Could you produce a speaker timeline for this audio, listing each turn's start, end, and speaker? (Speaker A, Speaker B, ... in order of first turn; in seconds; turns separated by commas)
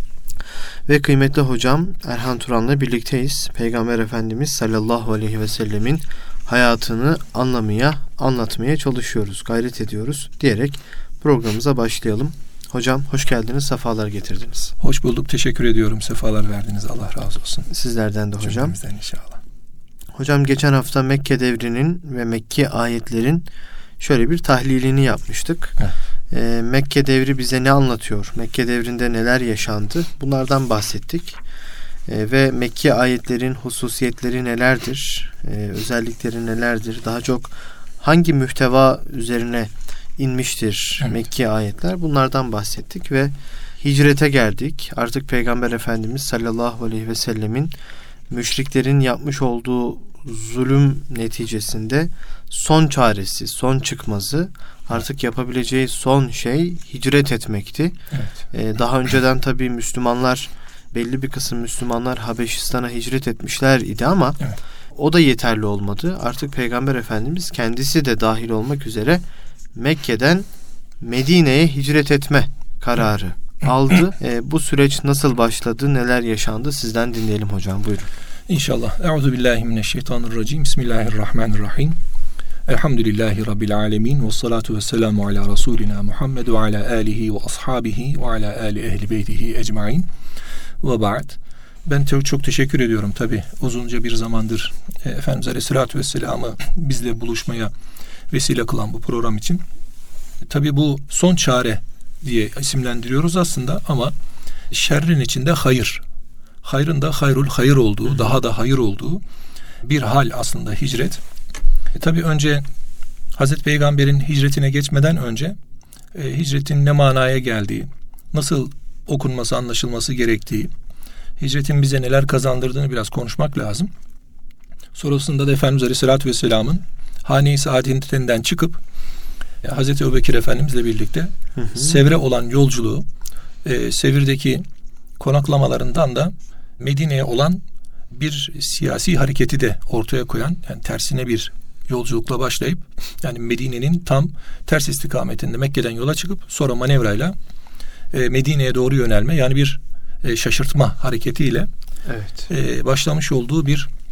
Speaker A: 0.9-14.7, Speaker B: 14.8-17.7, Speaker A: 17.7-18.8, Speaker B: 18.4-19.4, Speaker A: 20.1-23.4, Speaker A: 24.0-25.8, Speaker A: 26.3-31.4, Speaker A: 32.1-47.7, Speaker A: 48.3-58.0, Speaker A: 58.5-69.2, Speaker A: 69.7-70.5, Speaker A: 71.0-78.1, Speaker B: 78.5-82.0, Speaker B: 82.7-90.1, Speaker B: 90.8-97.7, Speaker B: 98.3-99.6, Speaker B: 100.5-104.1, Speaker B: 104.7-106.0, Speaker B: 106.6-109.2, Speaker B: 109.8-111.2, Speaker B: 111.9-112.6, Speaker B: 113.3-115.5, Speaker B: 116.1-120.7, Speaker B: 121.4-123.9, Speaker B: 124.9-128.8, Speaker B: 129.6-133.0, Speaker A: 131.6-132.0, Speaker B: 133.6-134.6, Speaker B: 135.2-147.3, Speaker B: 148.1-151.7, Speaker A: 152.1-152.5, Speaker B: 152.5-153.9